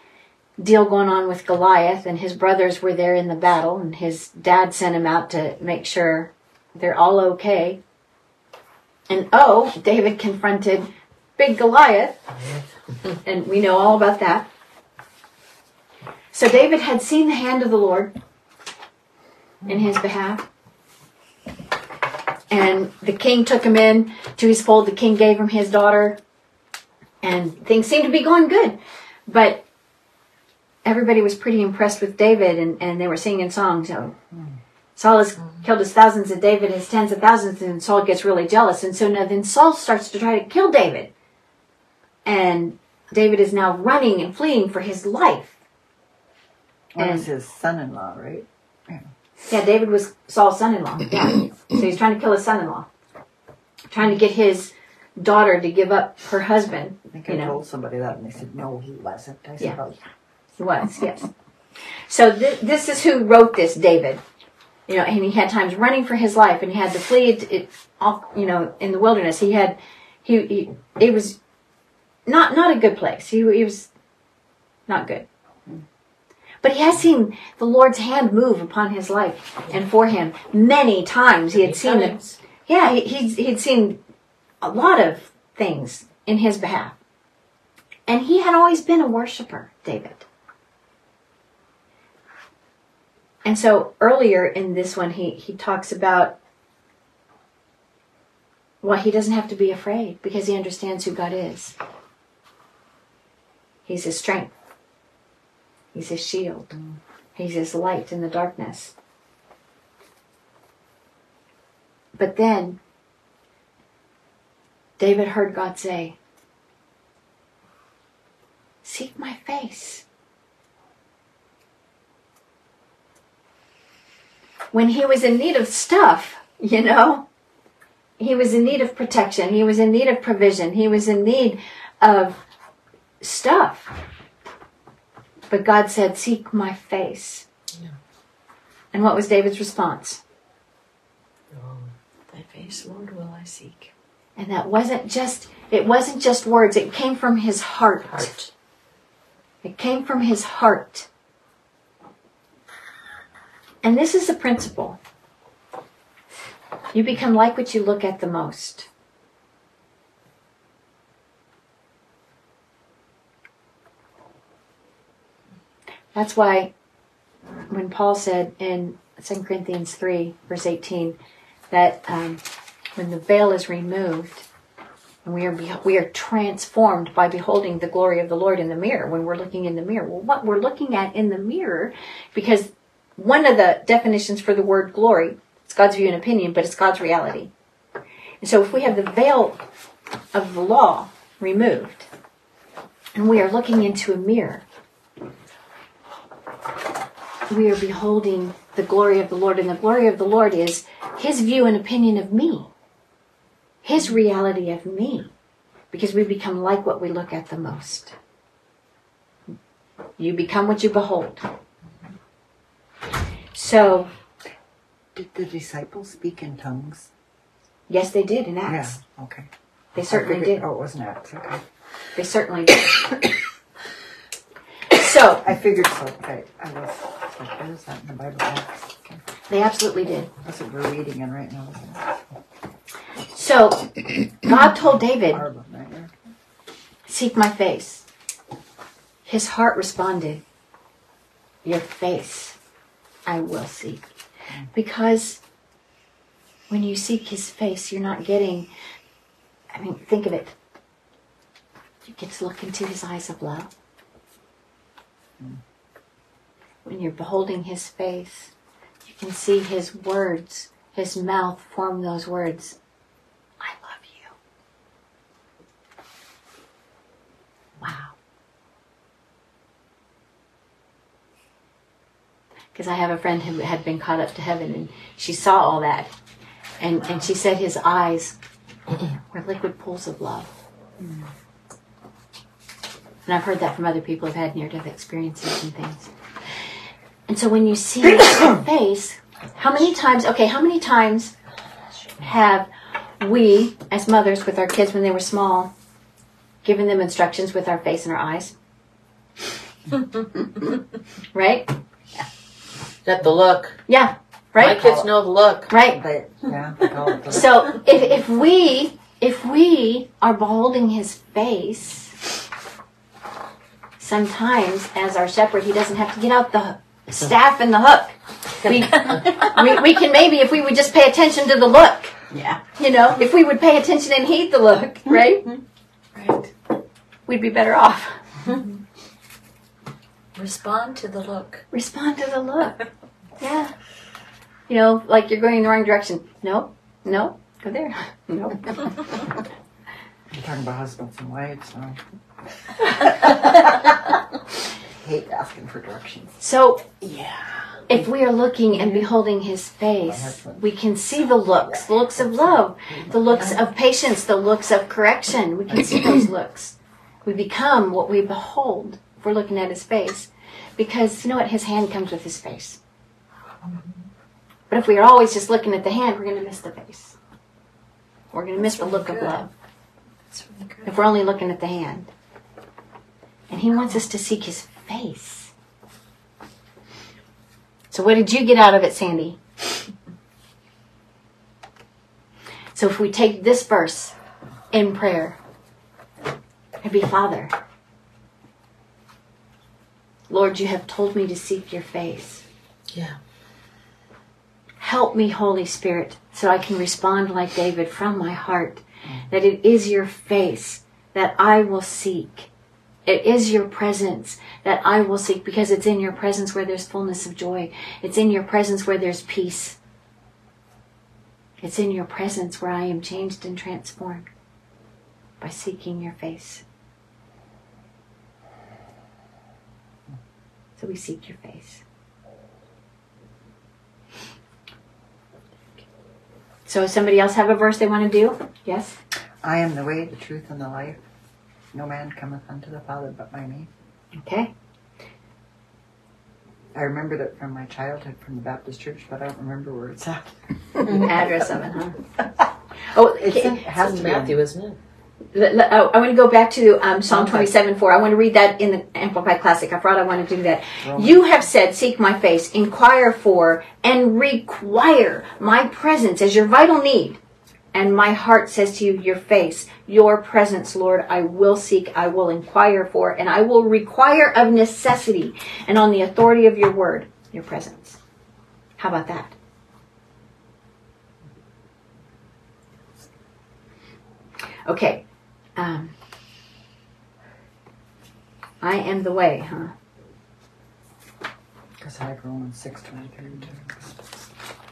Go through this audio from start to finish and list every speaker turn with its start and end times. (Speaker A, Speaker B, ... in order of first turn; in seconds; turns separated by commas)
Speaker A: 0.6-7.8, Speaker A: 9.1-12.2, Speaker B: 12.4-12.6, Speaker A: 13.2-14.5, Speaker A: 16.3-18.1, Speaker A: 19.7-20.5, Speaker A: 22.5-26.2, Speaker A: 27.2-29.6, Speaker A: 30.8-34.1, Speaker A: 35.0-41.1, Speaker A: 42.2-45.5, Speaker C: 47.0-49.1, Speaker A: 47.0-47.3, Speaker A: 49.5-52.9, Speaker A: 53.9-57.5, Speaker C: 57.1-60.1, Speaker A: 60.6-61.3, Speaker A: 62.1-64.2, Speaker A: 64.9-71.4, Speaker A: 72.3-73.9, Speaker A: 74.9-75.3, Speaker A: 76.6-84.0, Speaker B: 81.5-82.3, Speaker A: 84.6-87.0, Speaker A: 88.1-90.2, Speaker A: 93.5-96.4, Speaker A: 98.8-101.8, Speaker A: 103.9-104.5, Speaker A: 105.9-106.7, Speaker A: 107.4-108.9, Speaker A: 112.2-112.8, Speaker A: 115.0-116.2, Speaker A: 118.8-120.0, Speaker A: 124.7-127.3, Speaker A: 128.2-132.4, Speaker A: 133.2-133.9, Speaker A: 135.5-137.5, Speaker A: 138.9-140.2, Speaker B: 141.5-141.9, Speaker D: 142.3-143.9, Speaker A: 144.4-148.3, Speaker B: 148.1-148.5, Speaker A: 149.6-151.1, Speaker A: 153.8-155.0, Speaker A: 156.9-158.9, Speaker A: 166.1-166.7, Speaker A: 167.7-171.2, Speaker A: 171.7-172.4, Speaker A: 173.0-174.5, Speaker A: 175.2-187.5, Speaker A: 188.4-189.6, Speaker A: 190.3-192.1, Speaker A: 193.2-194.7, Speaker A: 197.5-202.7, Speaker A: 203.8-205.3, Speaker A: 205.9-208.1, Speaker A: 210.2-211.4, Speaker A: 213.5-214.1, Speaker C: 215.2-217.1, Speaker A: 217.9-219.0, Speaker C: 218.7-219.5, Speaker A: 219.9-220.7, Speaker C: 220.1-221.6, Speaker A: 222.2-223.0, Speaker A: 224.9-225.4, Speaker C: 225.4-229.2, Speaker A: 229.5-230.3, Speaker C: 230.4-232.2, Speaker A: 233.3-235.4, Speaker C: 235.3-236.1, Speaker A: 237.1-238.1, Speaker A: 239.3-240.4, Speaker A: 241.7-242.6, Speaker A: 243.3-244.0, Speaker A: 244.7-245.4, Speaker A: 246.7-248.7, Speaker A: 249.7-250.6, Speaker A: 252.0-253.7, Speaker A: 256.9-258.5, Speaker A: 259.1-262.8, Speaker A: 263.6-264.3, Speaker A: 267.8-268.1, Speaker A: 272.7-276.1, Speaker A: 276.8-278.4, Speaker A: 279.3-280.5, Speaker A: 283.3-286.1, Speaker A: 287.3-291.3, Speaker A: 292.2-292.7, Speaker A: 293.2-295.7, Speaker A: 296.6-298.6, Speaker A: 301.3-302.3, Speaker B: 303.1-303.8, Speaker A: 303.9-305.0, Speaker B: 304.6-305.7, Speaker A: 305.7-306.0, Speaker C: 305.9-308.0, Speaker A: 307.3-312.2, Speaker A: 314.0-325.6, Speaker D: 326.1-326.5, Speaker A: 327.3-328.6, Speaker D: 330.3-331.6, Speaker A: 331.7-332.8, Speaker A: 333.4-333.7, Speaker A: 334.7-339.1, Speaker C: 340.3-342.0, Speaker C: 342.7-344.2, Speaker C: 345.0-346.4, Speaker A: 346.4-346.8, Speaker C: 347.2-347.5, Speaker A: 347.9-362.8, Speaker C: 350.0-350.8, Speaker C: 351.4-353.4, Speaker D: 363.6-364.1, Speaker A: 364.7-367.1, Speaker A: 368.3-369.5, Speaker D: 368.6-369.4, Speaker D: 370.3-370.9, Speaker A: 370.9-372.1, Speaker A: 373.5-375.5, Speaker A: 377.9-379.4, Speaker A: 382.7-384.1, Speaker A: 384.7-385.4, Speaker A: 386.8-387.5, Speaker A: 390.3-392.4, Speaker B: 392.9-393.2, Speaker A: 394.8-402.5, Speaker A: 403.1-409.8, Speaker A: 411.6-414.3, Speaker A: 415.4-416.6, Speaker A: 420.8-421.8, Speaker A: 426.7-429.0, Speaker C: 429.4-431.0, Speaker C: 431.7-433.7, Speaker A: 434.2-434.5, Speaker C: 436.7-441.1, Speaker A: 440.9-442.0, Speaker A: 442.9-443.6, Speaker C: 443.2-444.4, Speaker B: 443.7-444.8, Speaker A: 445.3-457.2, Speaker B: 447.1-447.5, Speaker C: 450.8-451.2, Speaker A: 457.7-468.0, Speaker A: 468.8-469.3, Speaker A: 474.7-475.1, Speaker A: 475.6-475.9, Speaker A: 478.6-479.7, Speaker C: 481.8-484.2